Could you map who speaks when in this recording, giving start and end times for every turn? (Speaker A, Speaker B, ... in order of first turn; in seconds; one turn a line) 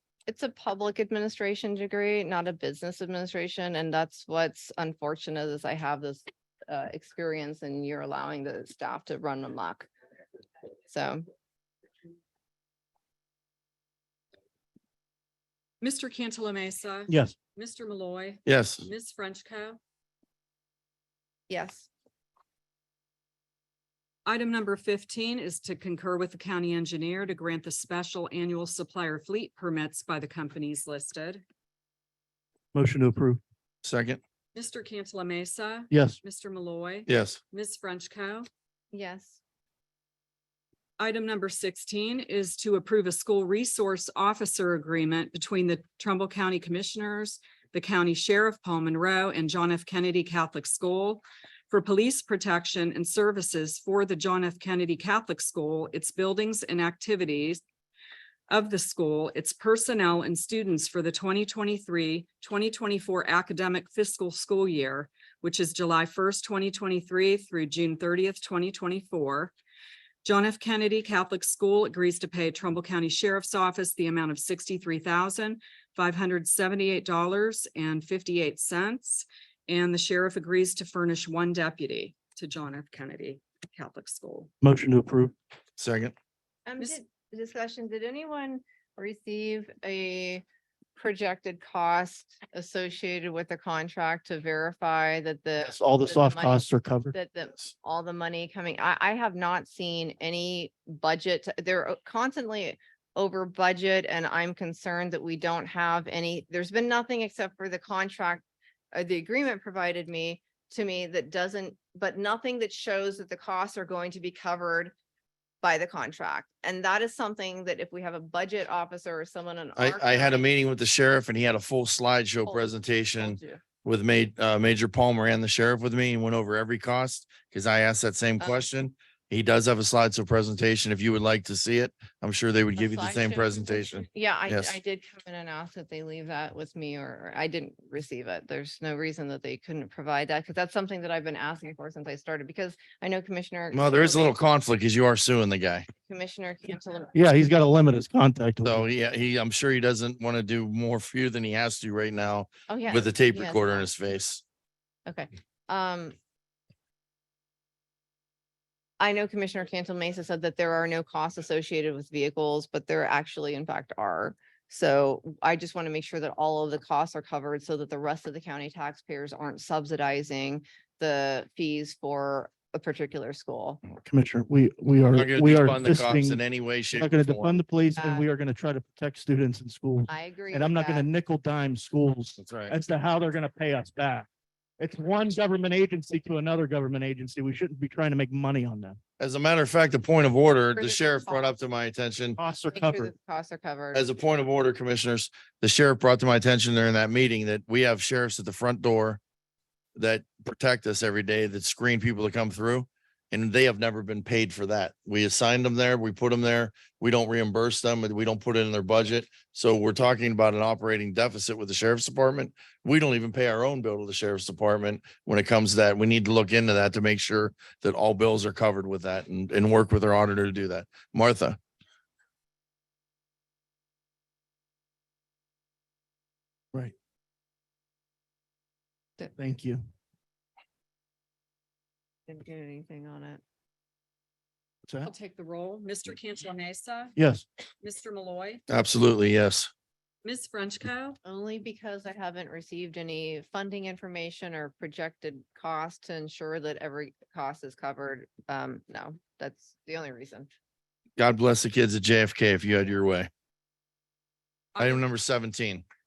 Speaker A: 0.3-9.9
Speaker A: 10.9-11.2
Speaker B: 15.8-19.8
Speaker C: 17.1-17.3
Speaker D: 18.4-18.9
Speaker A: 21.5-21.9
Speaker B: 24.2-31.4
Speaker C: 32.7-33.4
Speaker D: 33.8-34.2
Speaker B: 34.5-38.5
Speaker C: 35.9-36.2
Speaker D: 37.1-37.4
Speaker A: 38.9-39.4
Speaker B: 41.0-57.6
Speaker B: 58.5-69.5
Speaker B: 70.2-84.5
Speaker C: 84.6-85.3
Speaker D: 85.8-86.1
Speaker A: 86.7-90.4
Speaker A: 91.0-108.4
Speaker C: 95.6-97.1
Speaker A: 108.9-114.9
Speaker A: 115.6-120.5
Speaker D: 119.8-134.8
Speaker A: 122.5-123.6
Speaker A: 132.8-144.4
Speaker D: 143.7-145.9
Speaker A: 146.1-147.1
Speaker C: 147.1-148.8
Speaker D: 148.6-154.4
Speaker A: 152.7-153.9
Speaker A: 155.1-156.2
Speaker A: 159.0-173.8
Speaker C: 174.0-176.4
Speaker D: 175.1-177.6
Speaker C: 176.9-184.3
Speaker A: 178.0-178.3
Speaker A: 180.1-181.1
Speaker D: 182.4-182.7
Speaker C: 184.8-189.0
Speaker D: 189.2-192.4
Speaker A: 190.7-191.5
Speaker C: 192.4-193.1
Speaker A: 192.7-194.1
Speaker D: 193.9-199.2
Speaker D: 199.9-221.6
Speaker C: 229.3-229.8
Speaker A: 232.3-233.4
Speaker C: 234.8-235.1
Speaker B: 235.0-237.1
Speaker C: 237.2-237.4
Speaker B: 237.8-238.6
Speaker D: 238.7-239.7
Speaker B: 240.2-241.2
Speaker A: 241.2-250.5
Speaker D: 251.2-253.3
Speaker B: 254.7-255.0
Speaker D: 254.8-255.8